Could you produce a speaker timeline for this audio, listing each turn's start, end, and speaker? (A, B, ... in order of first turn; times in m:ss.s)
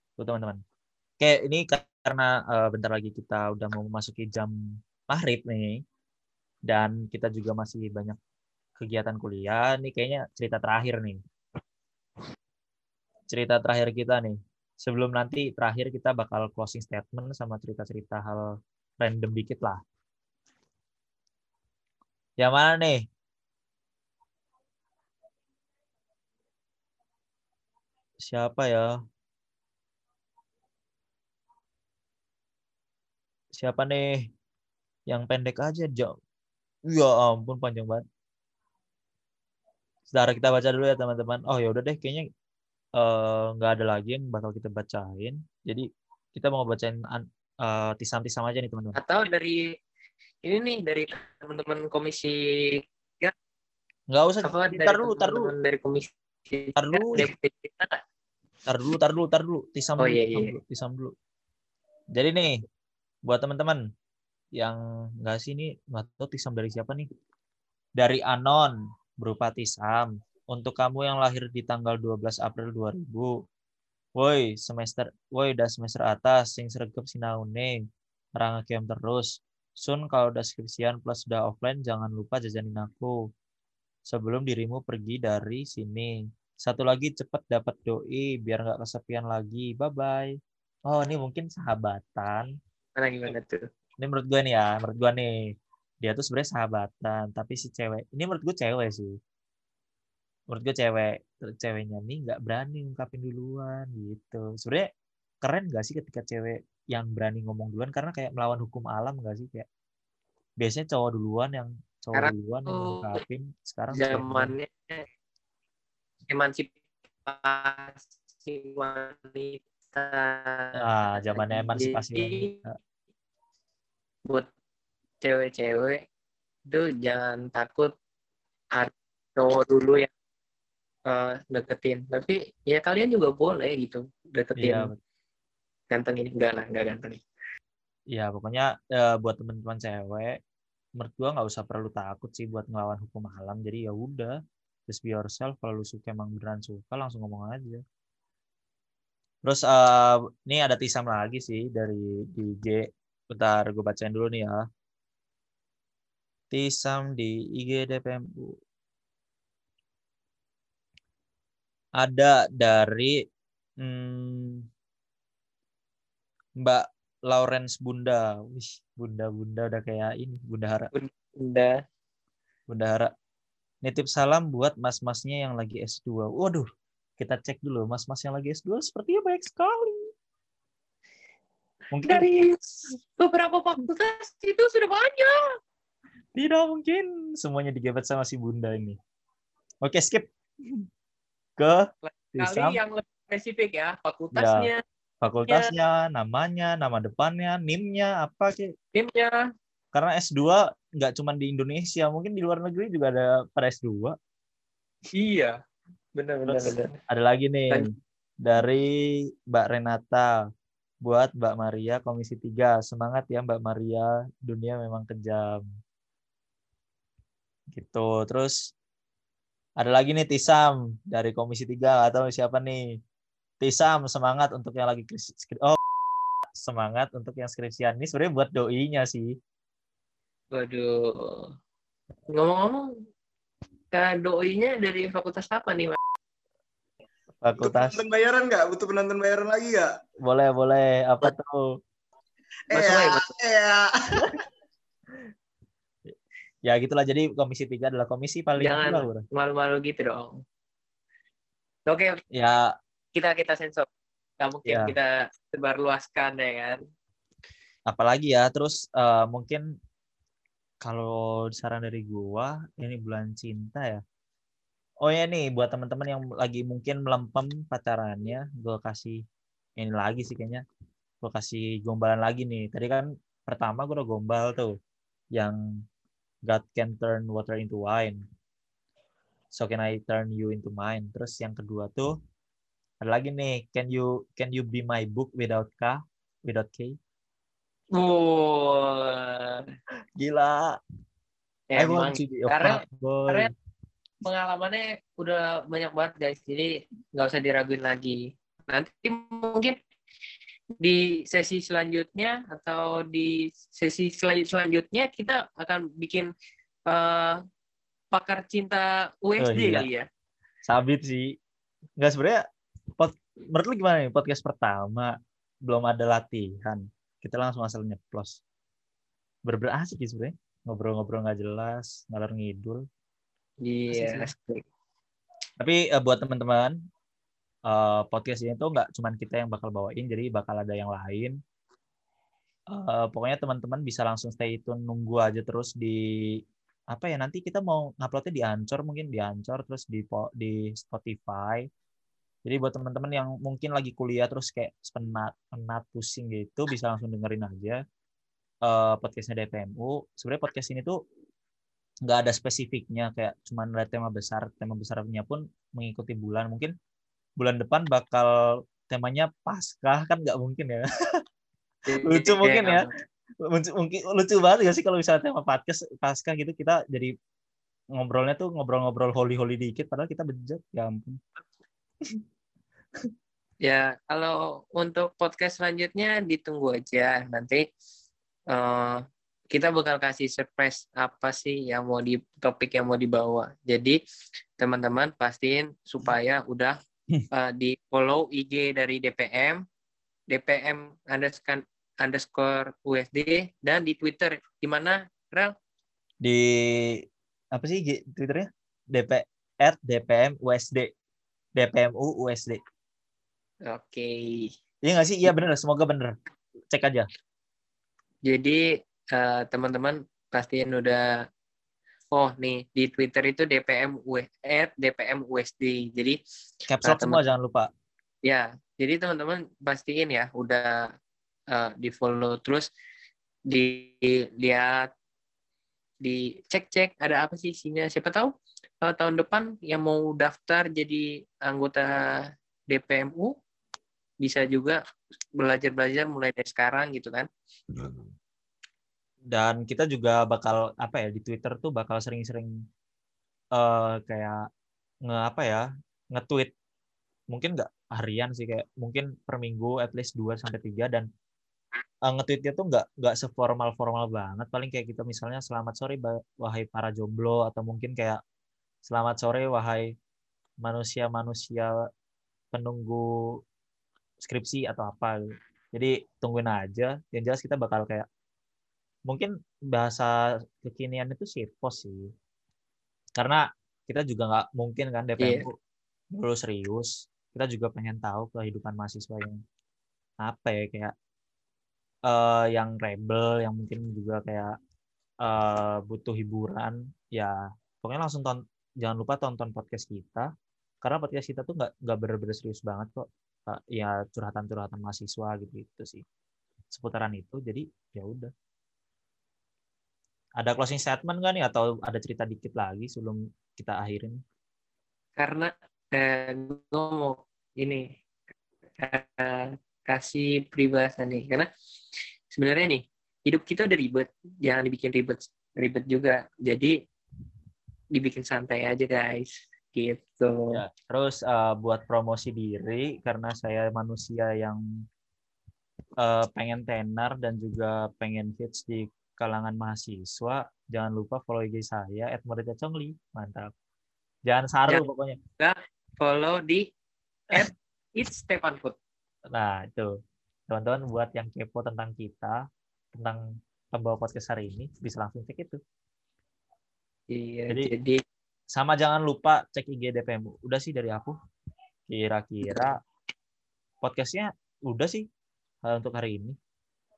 0:00.2-0:00.6 A
0:01.2-0:04.5 A
0:05.1-0:05.8 A
0:06.7-0:08.2 A
0:08.8-0:11.2 A
0:13.3-0:18.5 A
0:19.0-0:19.8 A
0:22.4-0:23.1 A
0:28.2-0:28.9 A
0:33.5-0:34.2 A
0:35.1-0:36.1 A
0:36.9-0:38.0 A
0:40.1-0:42.2 A
0:43.0-0:49.0 A
0:48.9-0:49.7 B
0:50.4-0:53.3 B
0:54.1-0:55.5 A
0:54.4-0:58.0 B
0:56.8-0:57.3 A
0:58.7-1:01.1 A
1:00.0-1:00.5 B
1:02.1-1:02.6 A
1:03.2-1:03.8 A
1:04.6-1:07.1 A
1:08.0-1:13.3 A
1:14.2-1:17.8 A
1:18.4-1:23.1 A
1:24.1-1:30.3 A
1:30.9-1:32.5 A
1:33.0-1:33.6 B
1:34.0-1:35.3 A
1:36.0-1:39.1 A
1:40.5-1:44.9 A
1:45.4-1:49.6 A
1:50.6-1:54.5 A
1:52.1-1:53.2 B
1:53.9-1:55.0 B
1:56.3-2:02.5 B
2:00.8-2:02.8 A
2:05.2-2:06.0 B
2:06.7-2:07.9 B
2:08.7-2:10.1 B
2:11.1-2:14.9 B
2:14.6-2:15.0 A
2:15.9-2:17.2 B
2:18.1-2:20.4 A
2:21.0-2:24.4 A
2:24.9-2:27.8 A
2:29.4-2:34.6 A
2:36.5-2:38.6 A
2:42.0-2:43.2 A
2:43.8-2:44.6 A
2:46.6-2:50.9 A
2:50.9-2:51.8 B
2:52.7-2:53.1 A
2:53.8-2:56.7 A
2:57.2-3:00.1 A
3:01.9-3:02.2 A
3:02.0-3:05.5 B
3:06.3-3:09.0 A
3:09.8-3:10.8 A
3:11.6-3:11.8 A
3:12.0-3:14.8 B
3:12.4-3:12.8 A
3:14.3-3:14.7 A
3:15.2-3:18.7 A
3:18.9-3:19.4 B
3:19.9-3:24.2 A
3:25.1-3:25.6 B
3:26.2-3:26.9 B
3:26.4-3:27.8 A
3:28.4-3:30.4 A
3:31.0-3:35.6 A
3:37.7-3:38.6 A
3:39.8-3:42.8 A
3:43.6-3:45.8 A
3:46.6-3:49.3 A
3:50.5-3:51.5 B
3:52.3-3:52.9 B
3:53.9-3:56.0 B
3:57.4-3:58.0 A
3:57.6-3:59.9 C
4:00.2-4:01.7 A
4:02.7-4:03.3 B
4:02.7-4:04.4 C
4:06.6-4:09.2 A
4:08.6-4:10.4 B
4:11.9-4:12.2 B
4:12.3-4:12.7 A
4:13.1-4:13.9 B
4:14.4-4:16.8 B
4:14.7-4:14.9 A
4:17.9-4:19.6 A
4:20.8-4:24.0 A
4:25.0-4:29.2 A
4:29.8-4:30.6 A
4:31.2-4:34.8 A
4:36.4-4:38.2 A
4:39.5-4:42.1 A
4:43.0-4:47.0 A
4:47.9-4:49.7 B
4:50.2-4:50.8 A
4:51.7-4:53.5 B
4:51.8-4:53.5 A
4:54.2-4:59.8 B
5:00.8-5:06.3 B
5:06.9-5:07.4 B
5:08.1-5:10.0 B
5:09.4-5:09.9 A
5:10.7-5:11.3 A
5:12.0-5:12.4 A
5:13.0-5:15.1 A
5:15.6-5:18.4 A
5:19.4-5:22.8 A
5:23.6-5:24.6 B
5:23.9-5:24.3 A
5:25.6-5:26.7 A
5:27.7-5:31.4 A
5:32.7-5:36.0 A
5:36.9-5:41.6 A
5:42.4-5:47.8 A
5:48.6-5:51.0 A
5:52.0-5:56.7 A
5:57.4-6:00.8 A
6:01.9-6:02.9 B
6:02.0-6:02.8 A
6:03.5-6:07.1 A
6:08.0-6:11.2 A
6:13.6-6:17.6 B
6:18.5-6:19.0 B
6:19.5-6:24.0 B
6:24.6-6:26.8 B
6:27.3-6:29.6 B
6:30.3-6:35.5 B
6:36.2-6:40.9 A
6:41.6-6:42.6 A
6:43.7-6:44.5 B
6:44.8-6:46.1 A
6:46.7-6:47.1 A
6:48.2-6:51.1 B
6:52.1-6:56.2 B
6:56.7-6:57.7 A
6:56.8-6:57.2 B
6:58.2-7:00.9 B
7:01.5-7:02.7 B
7:03.5-7:04.9 B
7:06.0-7:13.3 B
7:14.2-7:14.8 B
7:15.4-7:17.3 B
7:17.7-7:18.0 A
7:19.3-7:22.5 A
7:23.5-7:24.4 A
7:25.0-7:26.5 A
7:27.3-7:31.0 A
7:32.0-7:38.2 A
7:38.8-7:39.9 A
7:40.6-7:41.7 A
7:42.5-7:43.0 A
7:44.2-7:45.2 A
7:45.7-7:48.0 A
7:49.1-7:52.1 A
7:53.2-7:55.5 A
7:55.2-7:55.4 B
7:56.1-7:59.4 A
8:00.2-8:00.9 A
8:02.1-8:04.5 A
8:05.2-8:10.3 A
8:10.8-8:16.0 A
8:16.7-8:18.3 A
8:20.4-8:24.2 A
8:25.2-8:27.9 B
8:28.8-8:31.5 B
8:32.3-8:36.8 B
8:37.9-8:40.6 B
8:40.5-8:44.6 A
8:46.0-8:53.5 A
8:54.3-8:55.2 A
8:55.4-8:56.7 B
8:57.3-8:58.7 B
8:59.3-9:00.0 A
9:00.5-9:02.4 A
9:02.9-9:05.6 A
9:07.1-9:08.0 B
9:08.5-9:11.1 A
9:11.9-9:12.8 A
9:12.5-9:12.7 B
9:13.8-9:15.0 A
9:15.6-9:16.4 A